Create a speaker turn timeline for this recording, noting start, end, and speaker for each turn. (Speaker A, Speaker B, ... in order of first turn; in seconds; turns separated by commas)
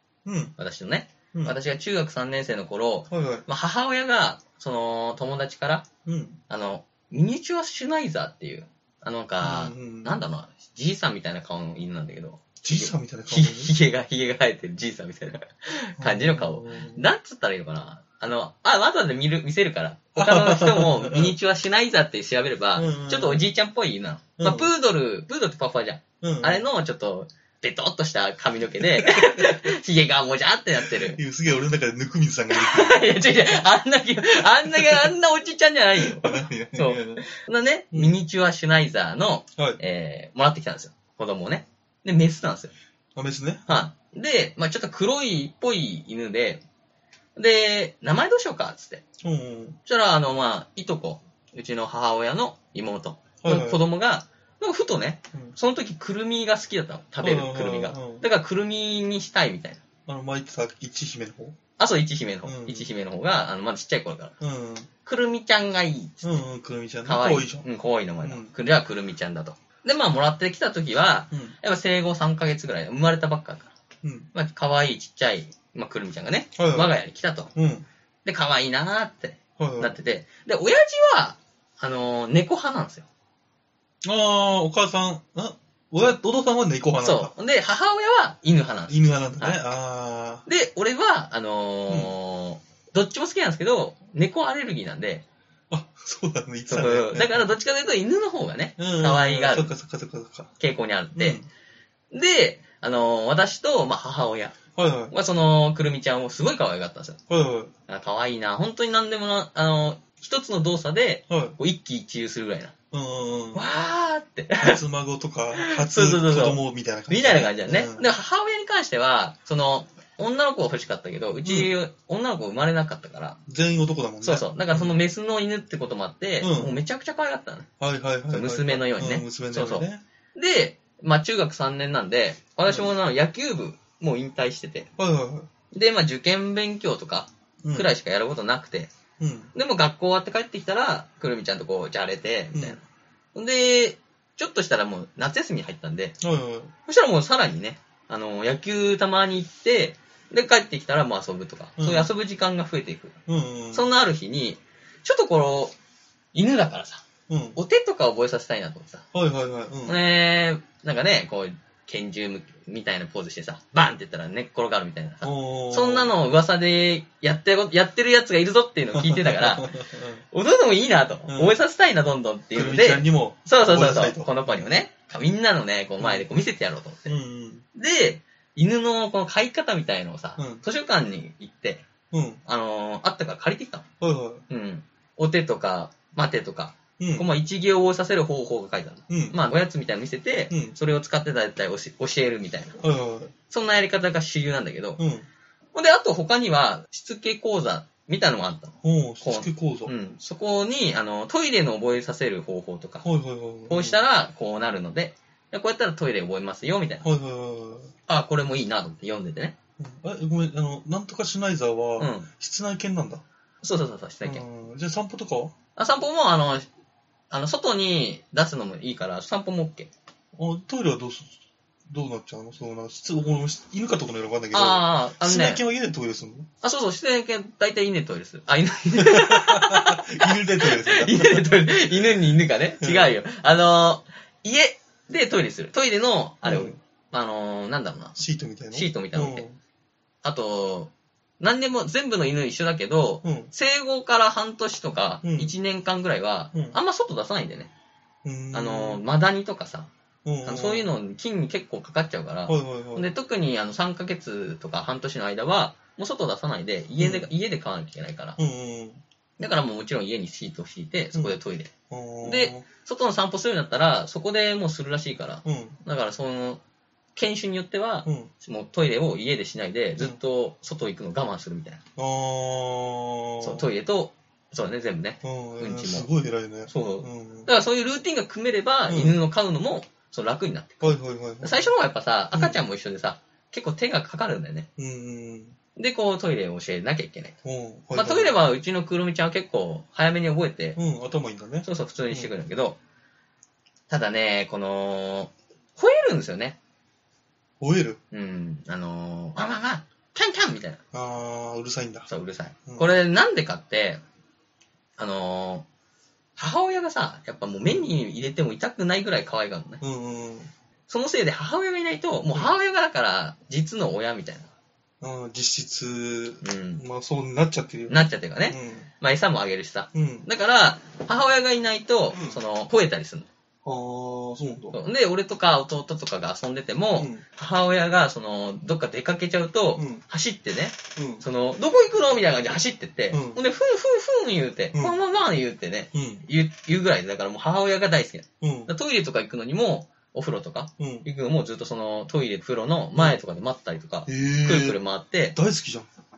Speaker A: 0.3-0.6, Speaker B: 0.6-5.9, Speaker A: 3.1-3.5, Speaker A: 6.0-6.4, Speaker B: 6.5-31.2, Speaker A: 9.4-10.2, Speaker A: 12.6-13.8, Speaker A: 16.0-17.1, Speaker A: 20.2-21.4, Speaker A: 22.7-23.5, Speaker A: 24.4-24.7, Speaker A: 26.2-26.7, Speaker A: 29.0-29.5, Speaker A: 30.9-33.1, Speaker B: 32.5-42.7, Speaker A: 34.6-35.1, Speaker A: 36.0-37.3, Speaker A: 37.9-38.2, Speaker A: 43.2-43.8, Speaker B: 43.7-46.6, Speaker B: 47.4-49.0, Speaker A: 49.2-49.8, Speaker B: 49.9-59.8, Speaker A: 53.4-53.9, Speaker A: 57.2-58.3, Speaker A: 60.1-61.6, Speaker B: 61.8-64.3, Speaker A: 62.4-62.9, Speaker A: 64.4-64.9, Speaker B: 65.0-66.3, Speaker A: 66.2-67.7, Speaker B: 67.0-73.7, Speaker A: 68.2-68.5, Speaker A: 74.0-74.3, Speaker B: 74.3-77.5, Speaker A: 76.6-77.0, Speaker A: 77.5-77.9, Speaker B: 78.2-83.1, Speaker A: 79.6-80.0, Speaker A: 84.0-87.3, Speaker B: 87.0-89.6, Speaker A: 88.9-90.5, Speaker B: 90.5-95.2, Speaker A: 91.9-92.1, Speaker A: 95.7-97.5, Speaker B: 96.7-99.8, Speaker A: 98.8-100.5, Speaker B: 100.6-101.4, Speaker A: 101.2-101.5, Speaker B: 102.1-104.6, Speaker A: 104.8-105.1, Speaker B: 105.1-107.2, Speaker A: 107.3-107.7, Speaker B: 107.9-112.7, Speaker A: 111.3-111.6, Speaker A: 112.9-113.7, Speaker B: 113.5-114.8, Speaker A: 114.6-118.0, Speaker B: 115.6-123.4, Speaker A: 121.4-121.7, Speaker A: 123.5-125.0, Speaker B: 124.2-127.7, Speaker A: 126.4-126.8, Speaker A: 127.8-130.0, Speaker B: 128.3-134.9, Speaker A: 132.7-132.9, Speaker A: 135.0-135.5, Speaker B: 135.7-138.9, Speaker A: 137.6-137.9, Speaker A: 139.2-139.5, Speaker B: 139.5-142.8, Speaker A: 142.5-142.8, Speaker B: 143.3-146.2, Speaker A: 146.2-146.7, Speaker B: 146.8-153.2, Speaker A: 151.8-152.1, Speaker A: 153.3-153.9, Speaker B: 153.7-155.7, Speaker B: 156.3-157.0, Speaker A: 157.3-157.6, Speaker B: 157.6-159.1, Speaker A: 159.1-160.0, Speaker B: 159.9-169.8, Speaker A: 165.2-166.1, Speaker A: 168.9-170.2, Speaker B: 170.3-177.2, Speaker A: 171.3-171.6, Speaker A: 172.5-174.7, Speaker A: 176.0-176.3, Speaker A: 177.1-177.7, Speaker B: 177.8-181.8, Speaker A: 180.4-180.6, Speaker A: 182.1-182.4, Speaker B: 182.4-183.8, Speaker A: 184.0-184.4, Speaker B: 184.5-192.8, Speaker A: 187.0-187.3, Speaker A: 189.1-189.4, Speaker A: 190.5-190.8, Speaker A: 192.8-193.3, Speaker B: 193.5-195.0, Speaker A: 195.0-195.3, Speaker B: 195.7-203.1, Speaker A: 198.8-199.9, Speaker A: 203.0-204.0, Speaker B: 203.7-207.1, Speaker A: 207.0-207.9, Speaker B: 208.1-209.6, Speaker A: 209.8-213.2, Speaker B: 212.0-212.3, Speaker B: 213.6-214.4, Speaker A: 214.2-215.5, Speaker B: 215.8-216.7, Speaker B: 217.3-219.9, Speaker A: 220.4-221.4, Speaker A: 221.9-226.5, Speaker B: 224.5-225.6, Speaker B: 226.6-239.4, Speaker A: 229.0-231.8, Speaker A: 232.8-233.2, Speaker A: 236.4-236.8, Speaker A: 238.2-239.6, Speaker B: 240.2-247.7, Speaker A: 243.2-243.5, Speaker A: 245.2-245.6, Speaker A: 248.2-249.0, Speaker B: 248.5-249.9, Speaker A: 250.2-250.9, Speaker B: 250.4-258.4, Speaker A: 252.5-253.1, Speaker A: 257.0-257.3, Speaker A: 258.4-259.0, Speaker B: 259.4-266.6, Speaker A: 261.9-262.7, Speaker A: 265.4-265.8, Speaker B: 267.1-271.8, Speaker A: 268.1-268.3, Speaker A: 272.0-273.7, Speaker B: 273.4-276.1, Speaker A: 275.2-277.5, Speaker B: 276.7-284.7, Speaker A: 278.9-279.2, Speaker A: 280.8-281.8, Speaker A: 282.3-282.6, Speaker A: 284.8-285.6, Speaker B: 285.8-287.4, Speaker A: 287.4-288.4, Speaker B: 287.9-290.8, Speaker A: 290.8-292.3, Speaker B: 291.6-292.8, Speaker B: 293.9-296.6, Speaker A: 297.6-298.0, Speaker B: 298.1-300.8, Speaker A: 300.9-302.1, Speaker B: 302.1-304.0, Speaker A: 302.7-303.0, Speaker B: 305.0-305.7, Speaker B: 306.4-309.8, Speaker A: 307.6-307.9, Speaker A: 309.8-310.5, Speaker B: 310.9-314.5, Speaker A: 315.0-318.9, Speaker B: 316.4-316.8, Speaker B: 317.9-323.3, Speaker A: 319.9-320.3, Speaker A: 322.1-322.4, Speaker A: 323.6-324.8, Speaker B: 324.7-345.4, Speaker A: 327.0-327.2, Speaker A: 329.8-330.0, Speaker A: 331.0-331.2, Speaker A: 333.1-333.4, Speaker A: 335.9-336.3, Speaker A: 338.4-338.7, Speaker A: 340.8-341.1, Speaker A: 344.1-345.9